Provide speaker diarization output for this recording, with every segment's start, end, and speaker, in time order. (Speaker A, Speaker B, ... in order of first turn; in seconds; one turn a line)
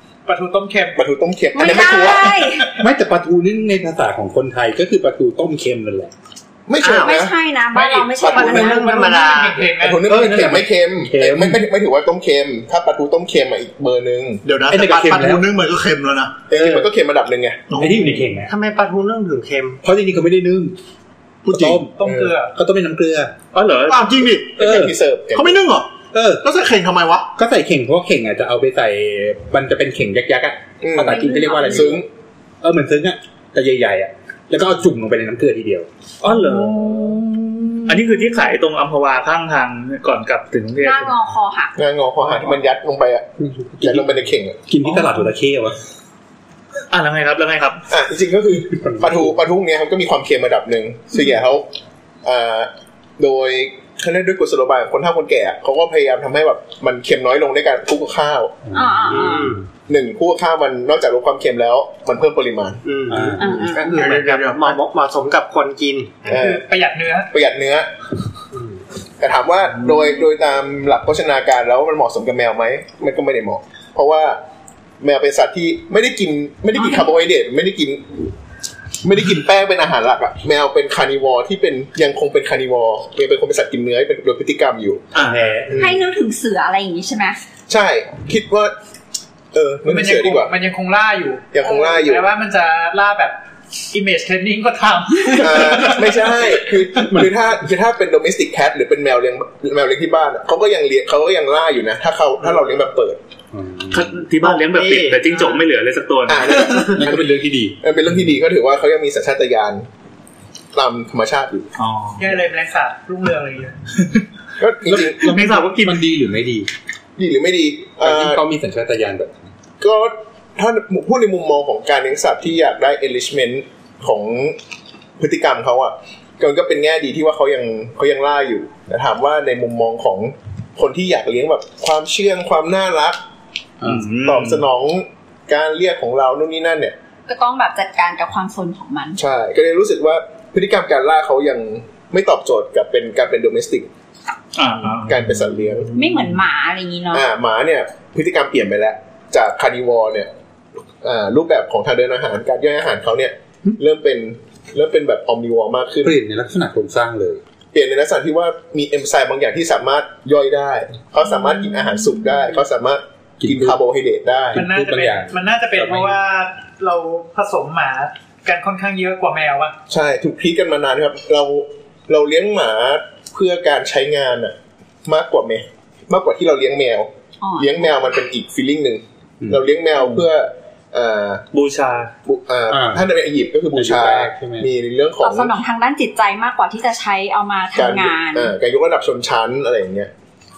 Speaker A: 0.2-1.0
Speaker B: 0.9-2.5
Speaker C: 1.5-2.7
Speaker D: 2.8-6.1
Speaker B: 6.7-7.4
Speaker E: 6.8-7.2
Speaker C: 7.0-8.9
Speaker A: 7.7-10.6
Speaker B: 8.1-8.7
Speaker E: 8.4-9.7
Speaker B: 9.8-14.4
Speaker D: 11.0-11.7
Speaker F: 14.4-16.4
Speaker D: 14.7-15.5
Speaker B: 16.5-17.6
Speaker D: 16.6-16.8
Speaker F: 17.7-18.3
Speaker D: 17.7-18.5
Speaker E: 18.5-19.8
Speaker D: 19.8-20.7
Speaker F: 21.4-21.9
Speaker D: 21.5-23.3
Speaker A: 21.9-22.5
Speaker B: 22.0-22.3
Speaker G: 23.5-24.1
Speaker F: 23.9-24.6
Speaker D: 24.6-24.9
Speaker B: 24.6-25.6
Speaker F: 25.3-27.3
Speaker D: 26.1-26.4
Speaker D: 27.4-32.0
Speaker B: 30.8-32.0
Speaker C: 31.0-31.9
Speaker D: 32.6-35.9
Speaker G: 36.2-37.0
Speaker F: 36.2-38.0
Speaker G: 37.9-41.1
Speaker C: 40.8-41.8
Speaker B: 41.8-44.6
Speaker D: 43.4-45.8
Speaker G: 46.9-47.8
Speaker B: 47.9-51.7
Speaker D: 48.7-49.4
Speaker B: 52.2-58.6
Speaker D: 58.6-59.6
Speaker C: 58.7-59.5
Speaker E: 59.1-59.6
Speaker B: 59.9-62.8
Speaker E: 62.8-66.3
Speaker D: 63.1-63.7
Speaker C: 63.4-64.0
Speaker F: 63.6-64.8
Speaker B: 66.3-66.6
Speaker A: 66.3-67.3
Speaker B: 67.3-67.9
Speaker B: 69.2-74.4
Speaker B: 75.0-78.2
Speaker C: 76.7-77.1
Speaker B: 79.0-85.1
Speaker G: 85.1-85.6
Speaker B: 85.7-86.0
Speaker C: 85.8-87.4
Speaker B: 87.7-88.7
Speaker B: 89.5-90.5
Speaker A: 89.8-93.4
Speaker B: 91.5-92.3
Speaker A: 93.9-96.8
Speaker B: 95.3-103.2
Speaker D: 103.5-104.3
Speaker G: 103.9-106.8
Speaker E: 104.4-105.6
Speaker B: 106.3-109.9
Speaker D: 106.8-107.8
Speaker B: 110.7-111.7
Speaker D: 111.9-112.2
Speaker A: 112.2-113.8
Speaker B: 114.6-115.4
Speaker D: 114.8-116.7
Speaker G: 115.2-116.0
Speaker B: 117.2-118.4
Speaker D: 118.0-119.5
Speaker B: 119.8-124.6
Speaker B: 125.2-133.2
Speaker D: 133.8-134.1
Speaker G: 133.8-134.6
Speaker B: 134.2-136.9
Speaker C: 137.3-139.2
Speaker B: 139.2-143.9
Speaker G: 144.6-145.2
Speaker B: 145.0-145.9
Speaker F: 145.1-146.4
Speaker C: 145.9-147.2
Speaker B: 147.1-150.3
Speaker B: 151.0-156.2
Speaker D: 156.0-157.4
Speaker B: 157.7-164.7
Speaker C: 161.6-162.3
Speaker D: 163.4-163.8
Speaker D: 164.5-166.2
Speaker A: 164.5-169.7
Speaker B: 169.9-181.4
Speaker C: 177.4-177.9
Speaker G: 181.5-182.1
Speaker B: 182.2-185.6
Speaker D: 182.7-183.1
Speaker D: 183.8-184.7
Speaker C: 185.2-188.5
Speaker B: 187.8-190.1